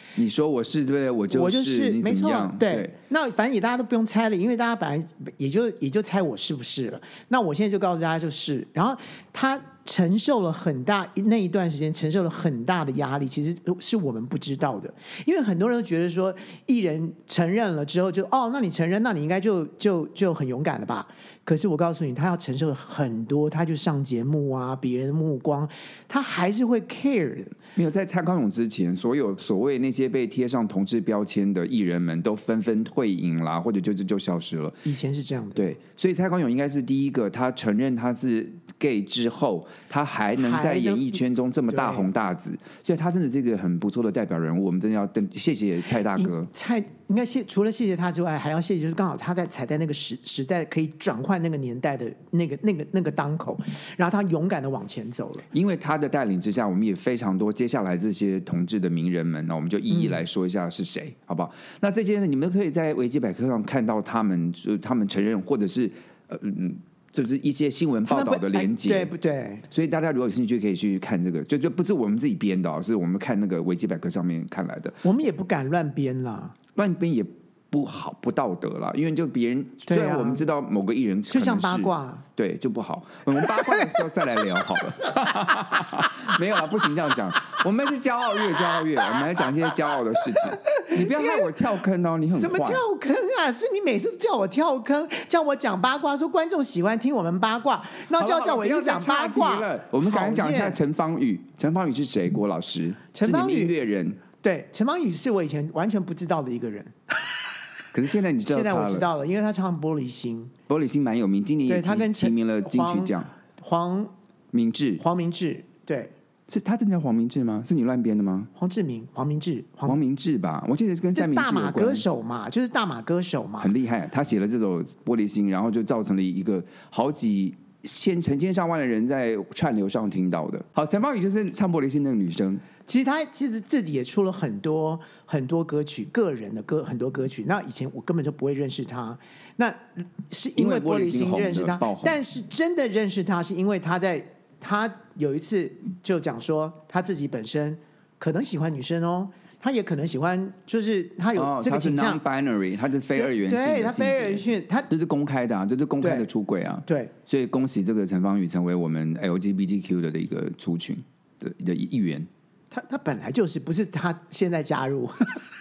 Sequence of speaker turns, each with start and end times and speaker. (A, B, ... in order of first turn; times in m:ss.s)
0:00.2-0:02.9 A
0:01.3-0:27.6 B
0:27.8-0:34.8 A
0:34.8-0:35.7 B
0:35.6-0:46.5 A
0:40.4-0:41.2 B
0:41.7-0:42.1 B
0:46.2-0:55.4 B
0:55.5-1:09.1 A
0:59.9-1:00.2 B
1:08.1-1:09.6 B
1:09.7-1:15.0 A
1:15.0-1:16.6 B
1:16.8-1:32.8 A
1:19.9-1:20.5 B
1:21.3-1:22.2 B
1:30.7-1:31.5 B
1:32.3-1:40.8 B
1:38.1-1:44.2 A
1:43.1-1:43.8 B
1:44.4-1:47.1 B
1:47.9-1:49.1 A
1:48.5-1:50.5 B
1:50.7-1:53.3 A
1:51.7-1:54.1 B
1:54.5-1:55.0 A
1:55.0-1:56.1 B
1:56.5-1:58.5 A
1:58.6-2:00.0 B
1:59.9-2:02.1 A
2:01.1-2:03.7 B
2:03.6-2:12.6 A
2:12.9-2:32.2 B
2:20.6-2:22.2 A
2:31.4-2:42.3 A
2:33.2-2:34.9 B
2:36.0-2:36.3 B
2:36.9-2:37.1 B
2:42.7-2:45.4 B